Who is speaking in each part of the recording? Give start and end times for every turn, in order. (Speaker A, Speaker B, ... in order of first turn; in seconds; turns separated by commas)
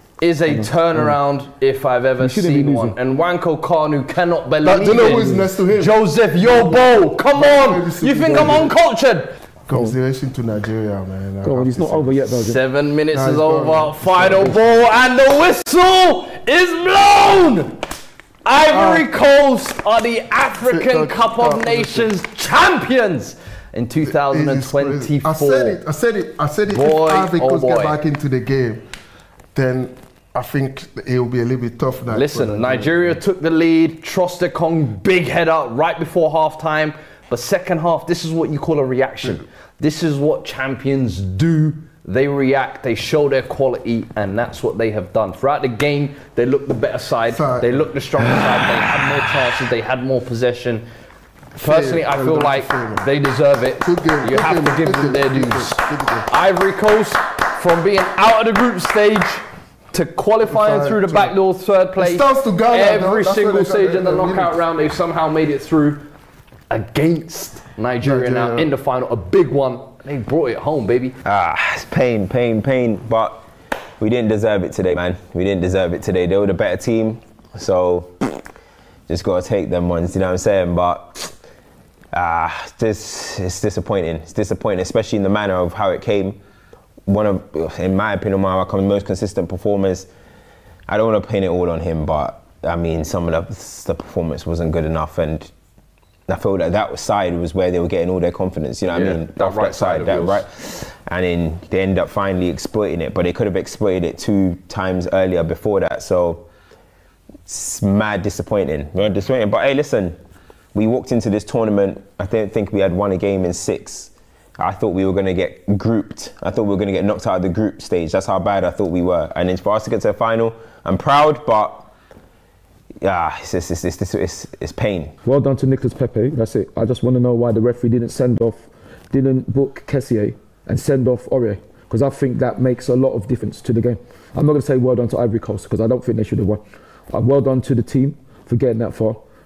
Speaker A: 0.2-9.3, Speaker B: 2.2-3.0, Speaker C: 4.6-5.9, Speaker C: 7.3-8.7, Speaker C: 9.7-12.2, Speaker B: 11.4-12.6, Speaker A: 12.3-17.8, Speaker C: 13.1-14.8, Speaker A: 18.4-25.8, Speaker C: 18.7-19.1, Speaker C: 20.6-22.1, Speaker C: 24.0-28.8, Speaker A: 26.7-28.0, Speaker C: 29.5-33.0, Speaker A: 32.1-50.8, Speaker C: 47.3-47.9, Speaker A: 51.5-66.0, Speaker C: 51.6-53.0, Speaker C: 53.8-56.3, Speaker C: 60.5-61.3, Speaker C: 62.0-64.6, Speaker A: 66.7-71.1, Speaker C: 68.0-68.7, Speaker D: 71.2-73.4, Speaker D: 74.0-78.4, Speaker D: 79.1-81.3, Speaker D: 82.1-86.4, Speaker D: 87.0-90.1, Speaker D: 90.9-95.5, Speaker D: 96.3-106.5, Speaker A: 98.9-100.4, Speaker D: 107.5-110.2, Speaker D: 110.7-121.9, Speaker D: 123.0-125.1, Speaker B: 125.2-139.2